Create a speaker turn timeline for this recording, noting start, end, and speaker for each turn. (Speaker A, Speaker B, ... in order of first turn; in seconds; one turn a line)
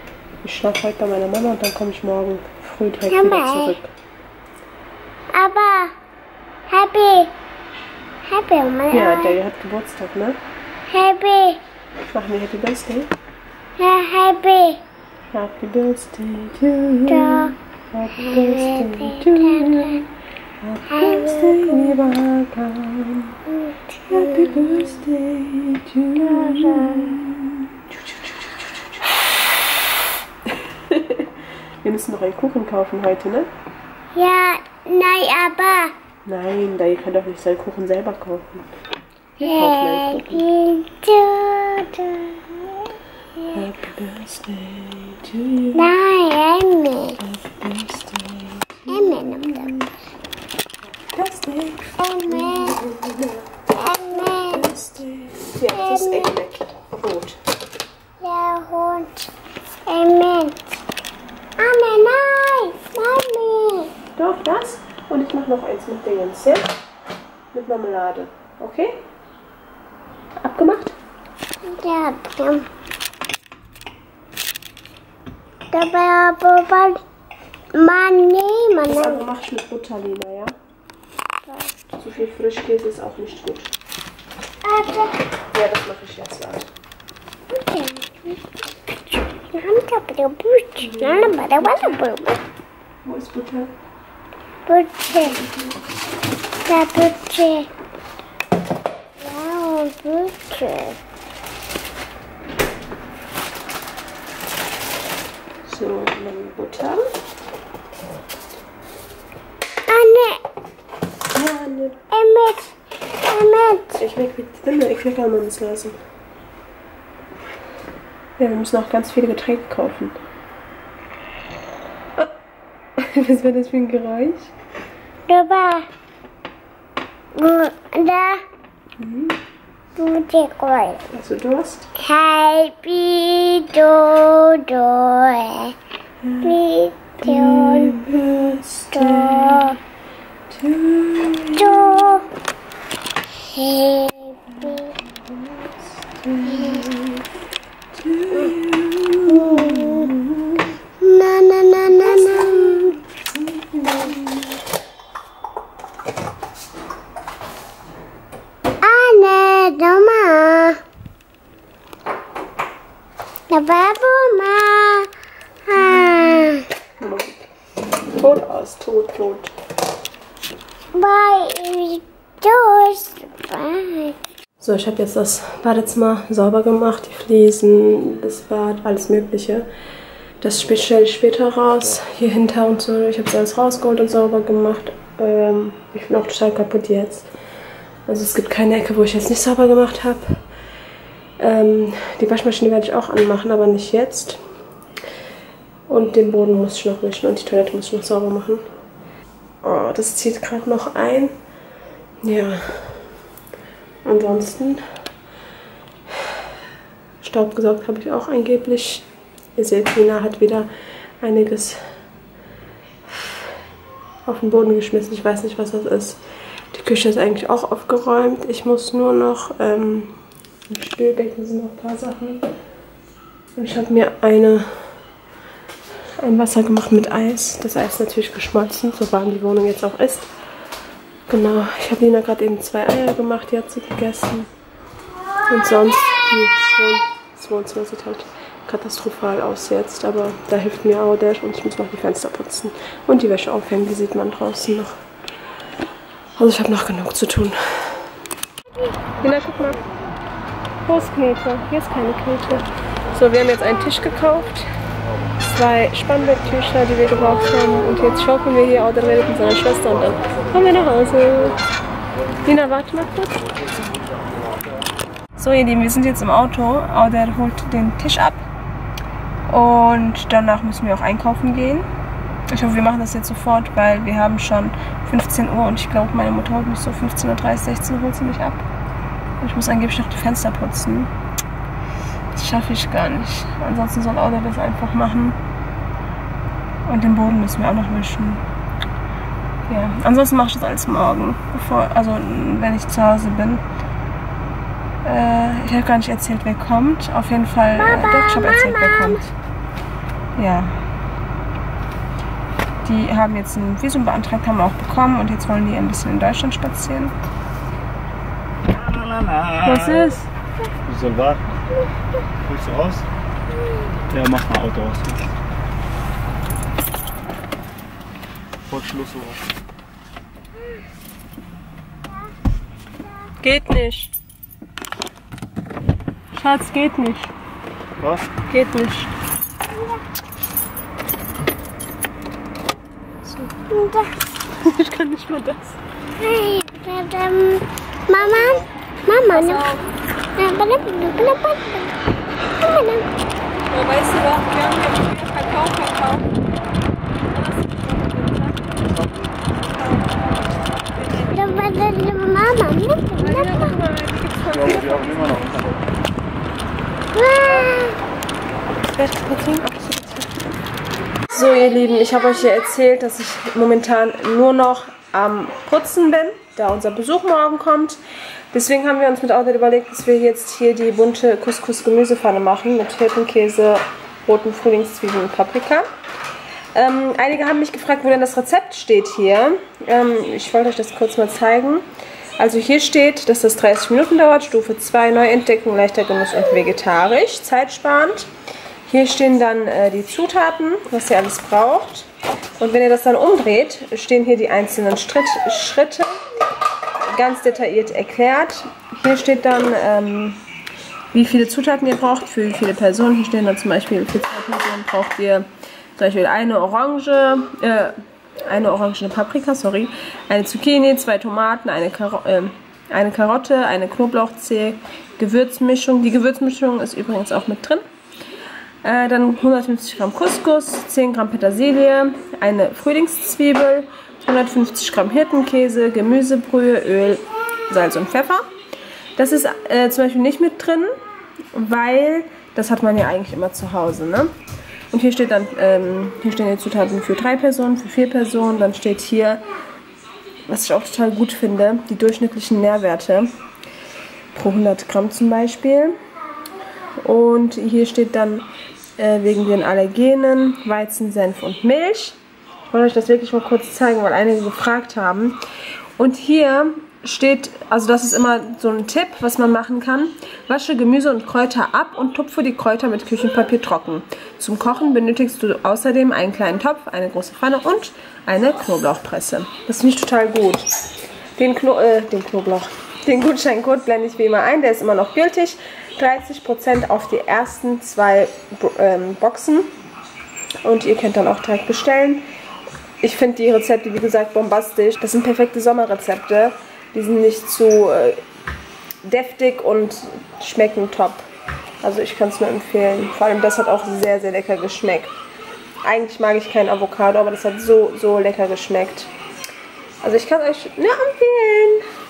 Speaker A: 0.4-3.9
Speaker B: 3.1-3.8
Speaker B: 5.3-5.9
Speaker B: 6.7-7.3
Speaker B: 8.2-9.3
Speaker A: 8.9-10.4
Speaker B: 10.9-11.6
Speaker A: 12.1-13.1
Speaker B: 13.8-14.8
Speaker A: 15.3-20.1
Speaker B: 17.1-17.5
Speaker B: 18.3-19.9
Speaker A: 20.6-23.4
Speaker B: 20.9-21.9
Speaker A: 24.1-28.5
Speaker B: 24.2-24.8
Speaker B: 26.2-27.2
Speaker A: 30.5-31.3
Speaker A: 31.8-33.5
Speaker B: 34.1-35.9
Speaker A: 36.2-38.6
Speaker A: 39.4-40.5
Speaker B: 39.4-42.9
Speaker A: 43.5-45.9
Speaker B: 45.8-47.2
Speaker A: 47.2-49.9
Speaker B: 48.9-49.7
Speaker A: 51.1-53.4
Speaker B: 52.0-52.8
Speaker B: 53.8-54.7
Speaker A: 54.1-57.4
Speaker B: 55.8-56.3
Speaker B: 58.2-59.3
Speaker B: 59.9-60.7
Speaker B: 61.6-63.9
Speaker A: 64.2-66.7
Speaker A: 67.5-69.0
Speaker A: 70.4-71.0
Speaker B: 71.7-72.7
Speaker B: 75.7-77.0
Speaker B: 77.7-79.2
Speaker A: 78.8-80.5
Speaker B: 81.5-81.7
Speaker A: 82.0-83.7
Speaker B: 84.6-85.2
Speaker A: 85.5-86.7
Speaker B: 87.5-88.4
Speaker B: 89.5-92.4
Speaker A: 90.8-92.1
Speaker A: 93.0-93.7
Speaker B: 94.7-95.4
Speaker A: 95.1-95.8
Speaker B: 96.6-97.7
Speaker B: 99.2-101.0
Speaker A: 105.6-107.0
Speaker B: 109.9-110.4
Speaker A: 111.3-112.0
Speaker B: 112.1-112.7
Speaker B: 113.2-114.0
Speaker A: 114.0-116.0
Speaker A: 118.4-120.2
Speaker A: 123.0-124.5
Speaker B: 125.3-125.9
Speaker B: 127.4-128.4
Speaker A: 129.0-129.4
Speaker B: 130.0-131.0
Speaker A: 131.1-131.9
Speaker B: 132.0-135.8
Speaker A: 136.2-136.6
Speaker B: 136.4-138.0
Speaker A: 137.2-139.8
Speaker B: 138.9-139.8
Speaker A: 140.5-142.1
Speaker B: 141.6-142.3
Speaker B: 143.5-144.9
Speaker A: 144.5-147.2
Speaker B: 146.5-146.9
Speaker A: 147.9-150.7
Speaker B: 149.3-150.1
Speaker B: 151.0-152.9
Speaker A: 151.9-154.6
Speaker B: 158.8-160.8
Speaker B: 163.5-165.1
Speaker B: 165.7-166.7
Speaker A: 167.0-167.5
Speaker A: 168.1-169.5
Speaker B: 170.9-174.2
Speaker A: 174.6-179.7
Speaker A: 180.4-187.3
Speaker A: 188.1-190.4
Speaker A: 191.4-194.4
Speaker A: 195.9-198.6
Speaker A: 199.6-201.3
Speaker A: 202.2-203.0
Speaker A: 204.1-204.8
Speaker A: 207.2-210.7
Speaker A: 211.2-211.8
Speaker A: 214.2-216.2
Speaker A: 216.7-220.2
Speaker A: 220.7-222.4
Speaker A: 223.6-224.7
Speaker A: 226.2-230.3
Speaker A: 231.3-234.5
Speaker A: 235.5-244.9
Speaker A: 246.4-248.0
Speaker A: 249.2-249.8
Speaker A: 250.8-254.7
Speaker A: 255.4-261.6
Speaker A: 262.4-263.4
Speaker A: 265.4-268.4
Speaker A: 269.5-271.9
Speaker A: 272.5-278.6
Speaker A: 279.4-281.1
Speaker A: 282.3-285.4
Speaker A: 286.9-288.4
Speaker A: 289.7-293.6
Speaker A: 295.0-299.3
Speaker B: 297.8-299.2
Speaker A: 300.4-300.8
Speaker A: 302.8-307.1
Speaker C: 308.7-310.1
Speaker A: 309.6-310.3
Speaker C: 310.9-311.5
Speaker C: 312.4-313.1
Speaker C: 314.1-315.2
Speaker C: 318.7-319.4
Speaker A: 323.4-324.1
Speaker A: 326.3-327.3
Speaker C: 328.0-328.3
Speaker A: 328.4-329.1
Speaker A: 333.2-333.6
Speaker B: 333.7-334.2
Speaker A: 334.5-335.8
Speaker B: 336.2-339.7
Speaker A: 339.3-339.9
Speaker B: 340.4-341.9
Speaker B: 342.6-343.1
Speaker A: 343.7-346.3
Speaker A: 347.3-348.9
Speaker A: 349.4-350.3
Speaker A: 350.9-351.6
Speaker B: 351.3-353.8
Speaker A: 353.2-355.8
Speaker C: 354.5-355.7
Speaker B: 357.1-358.0
Speaker A: 358.8-360.6
Speaker A: 361.3-368.0
Speaker A: 368.5-375.9
Speaker A: 376.7-381.9
Speaker A: 382.4-388.3
Speaker A: 388.8-396.2
Speaker A: 397.1-400.4
Speaker A: 401.1-417.8
Speaker A: 418.8-428.4
Speaker A: 429.2-430.9
Speaker A: 431.5-434.3
Speaker A: 434.9-439.4
Speaker A: 440.5-443.3
Speaker A: 444.3-445.9
Speaker A: 447.0-452.2
Speaker A: 452.7-455.4
Speaker A: 456.0-470.7
Speaker A: 471.4-479.7
Speaker A: 480.6-482.2
Speaker A: 483.0-488.2
Speaker A: 489.0-491.2
Speaker A: 491.8-495.1
Speaker A: 495.8-499.1
Speaker A: 500.0-501.8